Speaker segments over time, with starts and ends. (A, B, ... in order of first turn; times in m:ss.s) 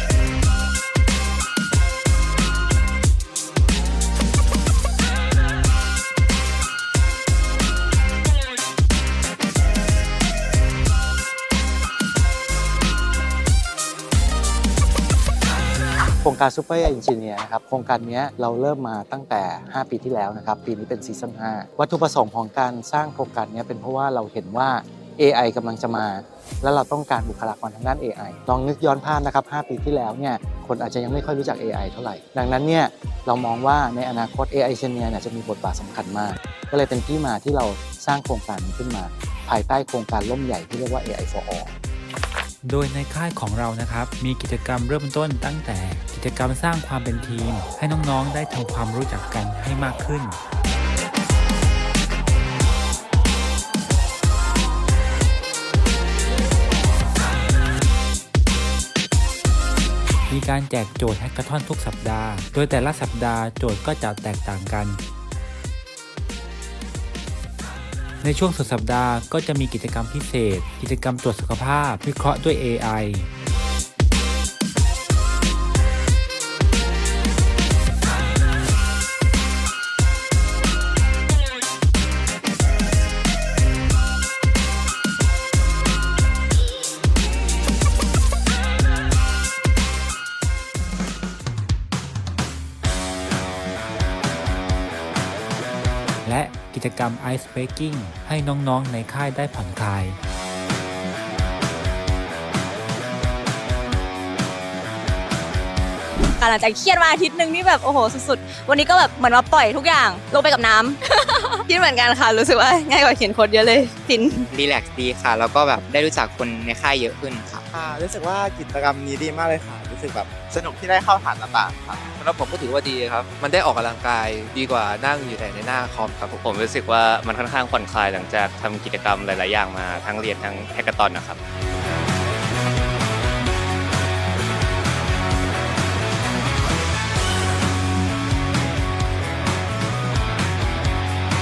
0:16.2-0:41.7 A
0:42.6-0:50.4 B
1:00.3-1:05.0 B
1:08.2-1:13.3 B
1:36.2-1:40.2 B
1:46.4-1:54.3 C
1:54.5-1:57.6 D
1:57.7-2:02.1 E
2:02.2-2:06.4 F
2:06.4-2:11.4 G